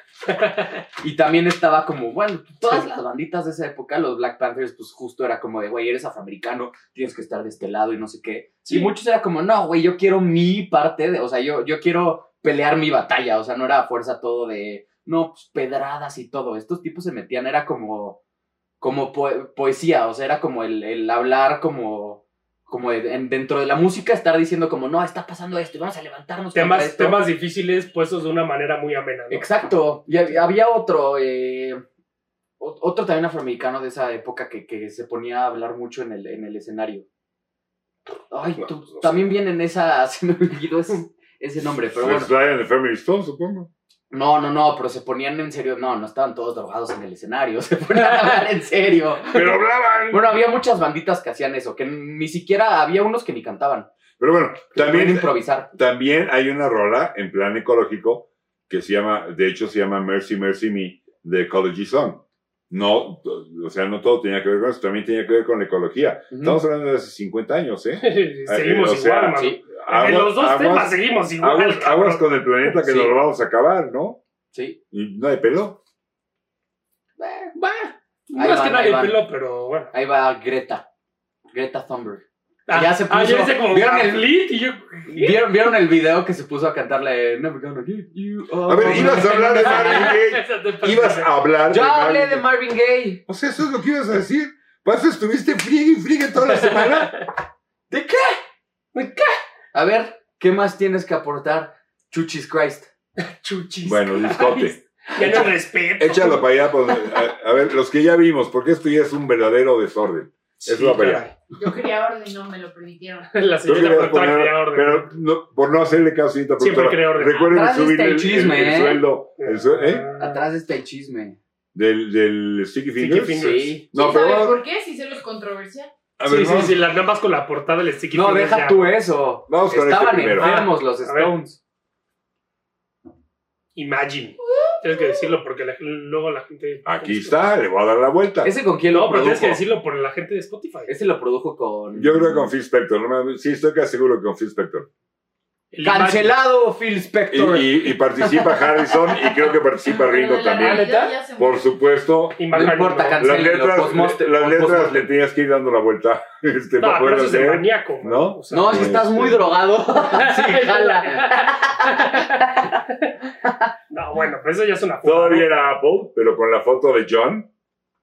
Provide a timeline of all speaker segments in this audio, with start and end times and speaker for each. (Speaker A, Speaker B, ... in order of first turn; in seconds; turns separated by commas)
Speaker A: 0.3-0.8, Speaker B: 1.0-18.2, Speaker A: 8.7-8.9, Speaker B: 18.8-27.2, Speaker A: 26.5-29.5, Speaker B: 29.3-31.8, Speaker B: 32.6-37.1, Speaker B: 38.3-42.3, Speaker C: 42.0-43.7, Speaker B: 44.1-49.6, Speaker C: 49.3-50.4, Speaker B: 50.1-53.9, Speaker C: 54.2-74.2, Speaker B: 54.7-55.7, Speaker B: 66.3-66.6, Speaker A: 68.0-72.3, Speaker B: 69.3-69.6, Speaker B: 72.8-73.1, Speaker B: 74.5-74.8, Speaker C: 74.9-75.8, Speaker B: 77.2-77.6, Speaker A: 77.6-79.9, Speaker B: 78.4-79.2, Speaker B: 79.9-80.9, Speaker B: 81.5-84.3, Speaker A: 82.7-85.5, Speaker B: 85.1-90.2, Speaker C: 88.7-92.5, Speaker A: 88.8-91.4, Speaker B: 91.7-93.2, Speaker C: 93.3-97.1, Speaker A: 96.4-97.3, Speaker B: 97.9-98.4, Speaker A: 98.9-99.4, Speaker B: 99.7-102.9, Speaker A: 103.3-106.5, Speaker C: 103.8-105.4, Speaker C: 106.0-111.2, Speaker A: 110.6-111.3, Speaker D: 111.6-113.5, Speaker A: 113.3-115.1, Speaker C: 113.6-120.1, Speaker A: 116.6-117.5, Speaker B: 117.5-119.0, Speaker A: 119.4-120.4, Speaker B: 120.2-121.4, Speaker C: 121.7-124.6, Speaker A: 123.0-123.8, Speaker B: 123.3-123.9, Speaker D: 123.9-125.9, Speaker C: 126.2-126.8, Speaker A: 126.2-129.0, Speaker B: 128.1-131.6, Speaker C: 129.5-130.6, Speaker A: 130.4-131.3, Speaker A: 133.8-137.4, Speaker C: 136.9-138.5, Speaker B: 138.4-139.6, Speaker A: 138.9-140.9, Speaker B: 140.9-142.5, Speaker C: 141.9-144.9, Speaker A: 145.7-146.3, Speaker B: 145.8-148.6, Speaker C: 147.3-152.5, Speaker D: 149.9-151.7, Speaker A: 150.6-151.2, Speaker A: 152.4-153.2, Speaker B: 152.5-155.1, Speaker C: 153.2-159.5, Speaker A: 156.8-159.0, Speaker B: 158.5-162.8, Speaker A: 159.9-163.1, Speaker A: 163.9-165.7, Speaker C: 165.0-167.5